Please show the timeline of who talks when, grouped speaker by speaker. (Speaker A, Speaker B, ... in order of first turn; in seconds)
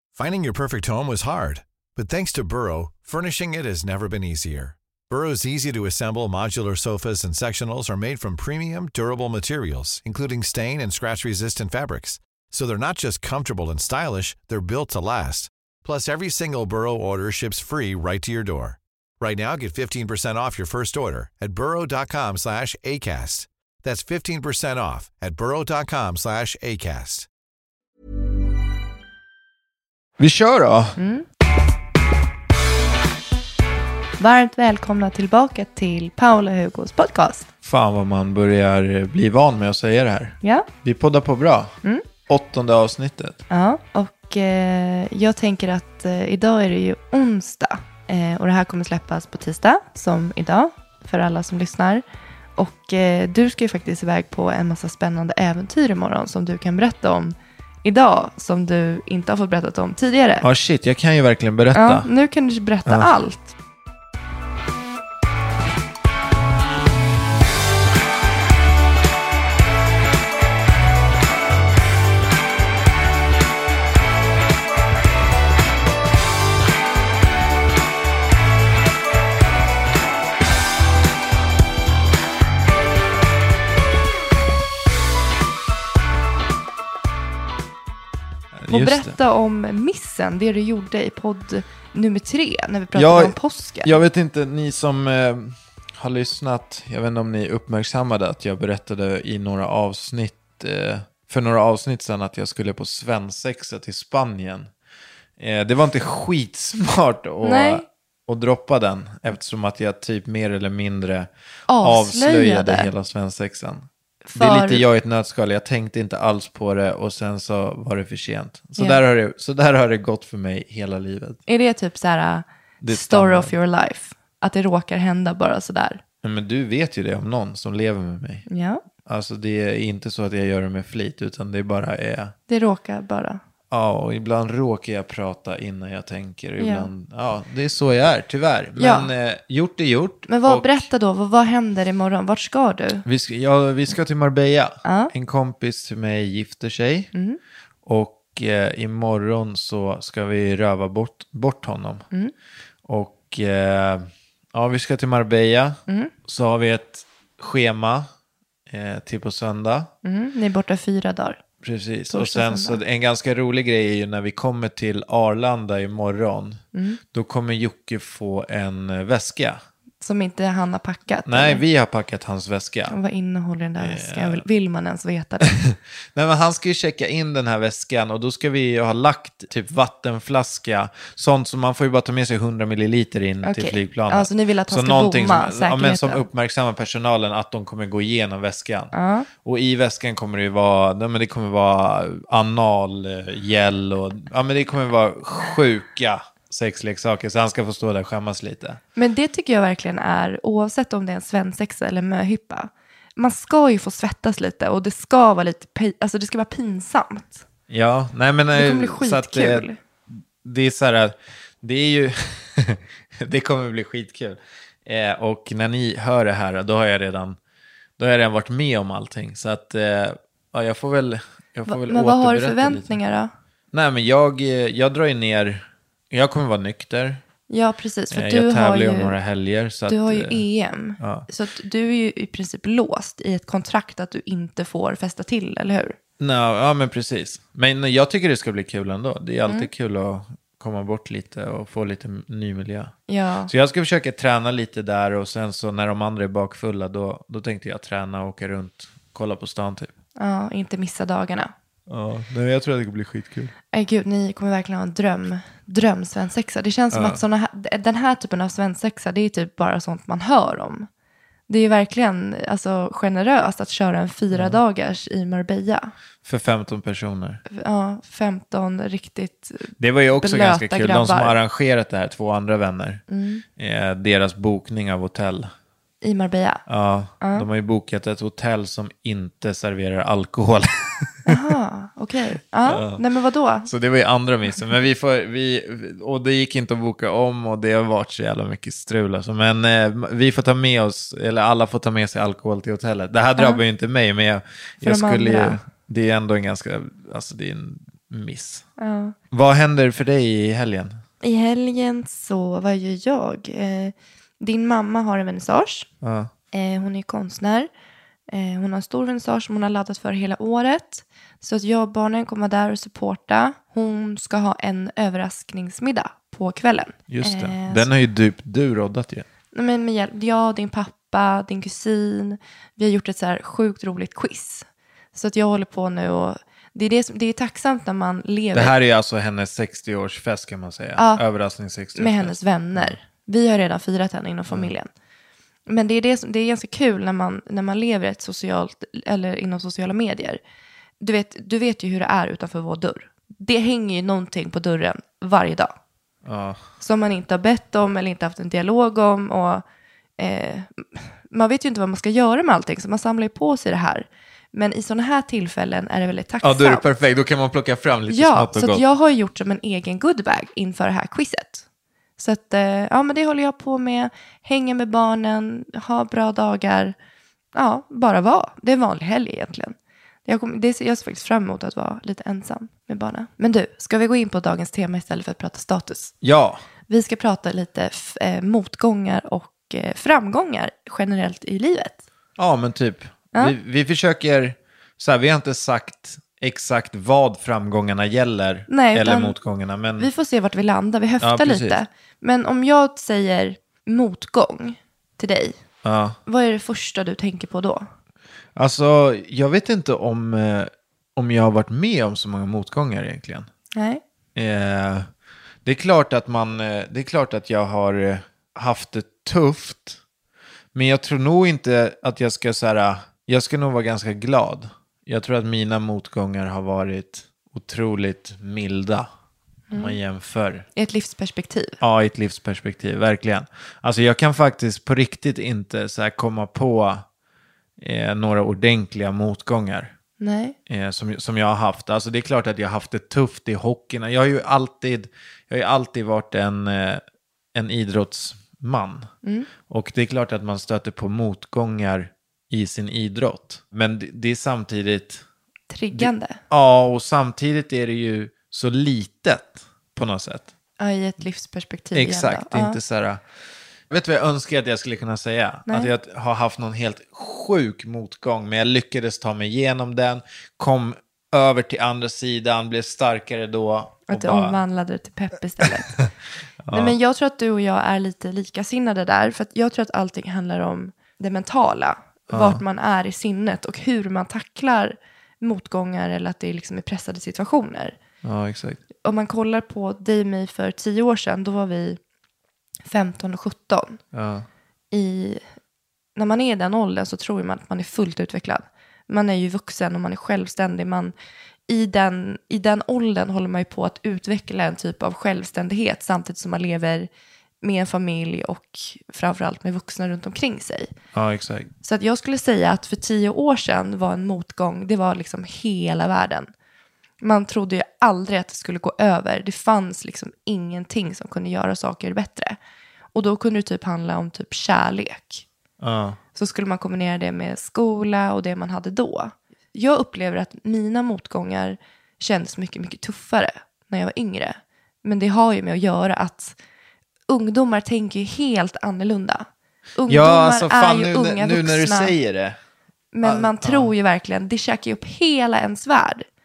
Speaker A: 0.1-27.3
Speaker B: 30.2-31.0, 37.6-41.7, 42.3-43.4, 60.4-62.1, 88.5-89.2, 92.9-104.7, 105.4-111.3, 111.8-121.4, 122.8-123.5, 126.2-128.4, 129.0-132.3, 133.7-140.9, 143.0-147.1, 147.8-152.0, 152.8-158.1, 158.7-159.9, 161.6-166.6, 167.1-169.6, 171.2-173.0, 173.8-174.4, 175.5-188.9, 189.4-198.8, 207.7-217.4, 218.0-222.9, 223.7-227.2, 228.1-230.4, 231.0-231.3, 236.2-242.9, 243.5-249.9, 251.9-253.5, 256.9-257.2, 264.3-264.6, 266.2-267.4, 269.8-273.0, 273.6-275.5, 276.7-281.5, 282.6-283.0, 283.6-298.6, 299.3-301.0, 306.0-306.3, 317.1-319.2, 328.5-333.0, 346.2-346.6, 356.4-358.8, 376.2-376.6, 382.4-390.1, 391.2-391.8, 395.8-396.2, 398.5-403.5, 404.3-405.1, 405.6-410.0, 410.7-419.1, 419.7-420.6, 421.8-427.0, 427.8-429.9, 430.7-437.0, 437.5-439.1, 439.7-445.2, 445.9-450.5, 451.9-453.2, 453.9-464.6, 465.6-466.0, 466.6-466.9, 472.3-472.6, 478.2-478.8, 484.1-484.5, 501.1-501.7, 515.8-516.2, 530.1-532.6, 533.2-533.9
Speaker C: 31.0-31.2, 34.2-37.5, 40.4-40.7, 43.5-52.0, 52.5-60.4, 61.7-63.5, 88.7-93.9, 107.4-107.8, 111.7-112.9, 114.3-114.8, 121.5-126.0, 128.5-128.8, 132.5-133.4, 136.6-136.9, 138.8-139.1, 140.3-143.0, 144.8-145.1, 160.0-161.4, 162.1-162.8, 166.7-167.0, 170.0-171.6, 172.9-175.6, 183.4-186.2, 188.9-189.3, 198.9-207.4, 208.5-209.8, 221.7-223.3, 227.5-229.2, 229.9-236.0, 243.1-243.5, 250.2-251.5, 253.7-260.9, 261.5-265.9, 267.5-271.4, 273.1-273.4, 276.0-276.6, 277.2-277.4, 281.2-283.7, 294.8-295.6, 298.8-299.1, 301.2-305.9, 306.5-307.7, 308.3-317.9, 319.5-328.7, 331.0-331.2, 331.9-334.9, 335.7-340.4, 341.0-345.7, 346.8-349.6, 350.2-356.8, 358.1-361.6, 362.2-366.9, 367.5-369.7, 370.2-376.1, 376.9-382.0, 388.7-389.4, 390.0-395.6, 396.2-397.9, 403.7-404.0, 419.7-420.0, 420.7-421.8, 430.2-430.5, 439.2-439.5, 445.7-446.4, 450.8-452.8, 464.1-466.0, 466.7-478.0, 479.0-482.0, 482.9-484.0, 484.9-485.4, 486.1-491.1, 491.7-497.1, 497.6-500.9, 501.8-506.5, 507.2-512.6, 513.1-515.4, 516.3-526.5, 527.3-532.1, 533.1-536.2